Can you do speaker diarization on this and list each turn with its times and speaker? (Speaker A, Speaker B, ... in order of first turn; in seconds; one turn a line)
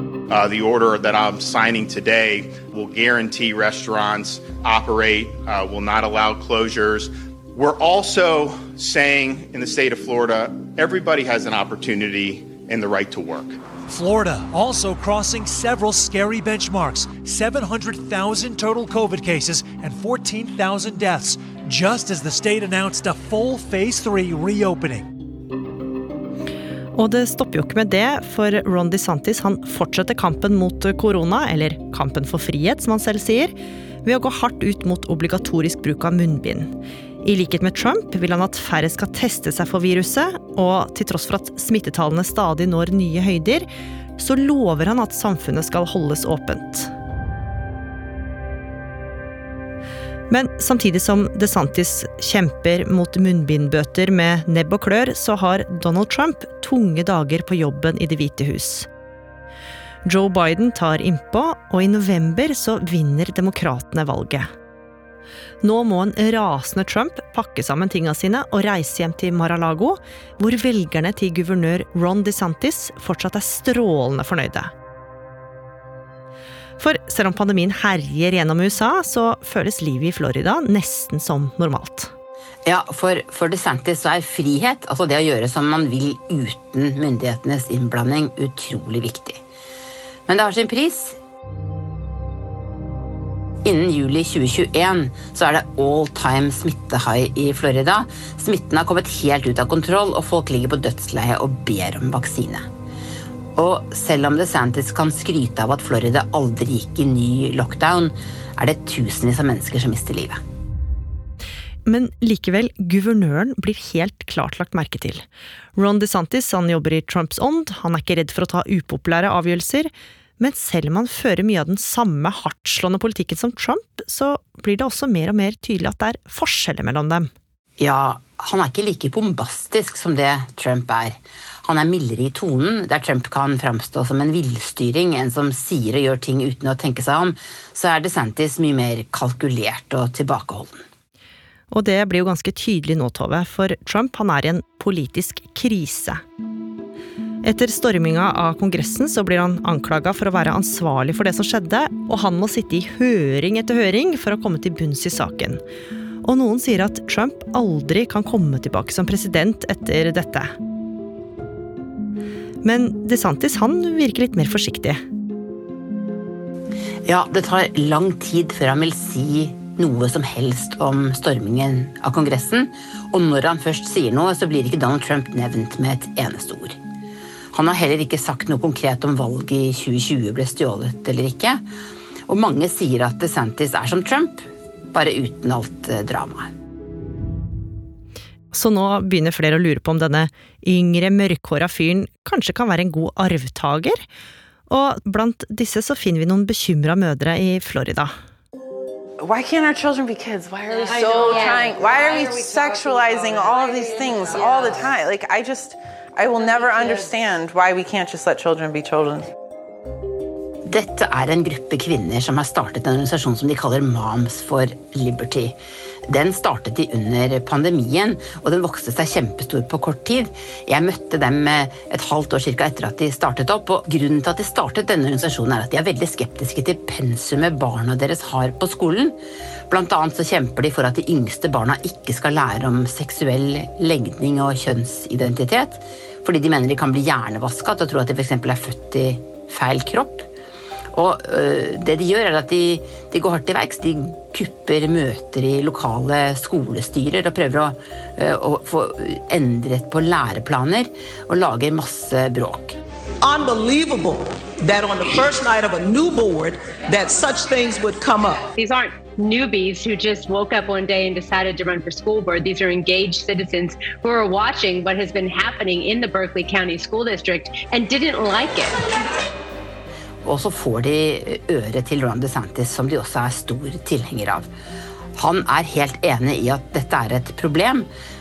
Speaker A: 0.3-13.6
Speaker B: 13.9-25.1
Speaker C: 26.9-43.7
Speaker C: 44.2-46.9
Speaker C: 50.3-58.9
Speaker C: 60.0-64.5
Speaker C: 65.6-74.7
Speaker C: 76.8-82.1
Speaker D: 82.6-89.4
Speaker D: 90.3-91.2
Speaker D: 93.6-102.7
Speaker D: 103.5-110.4
Speaker C: 111.8-115.2
Speaker C: 115.8-127.3
Speaker D: 127.8-140.8
Speaker C: 141.7-146.2
Speaker C: 147.4-155.6
Speaker C: 156.2-160.5
Speaker C: 162.6-165.0
Speaker D: 167.0-176.8
Speaker D: 177.5-181.6
Speaker D: 182.3-186.5
Speaker C: 188.5-194.0
Speaker C: 194.7-198.1
Speaker E: 199.2-209.3
Speaker D: 210.6-229.2
Speaker D: 229.7-240.3
Speaker D: 240.9-252.8
Speaker F: 253.2-258.4
Speaker G: 258.6-268.8
Speaker D: 270.2-274.5
Speaker D: 275.1-277.9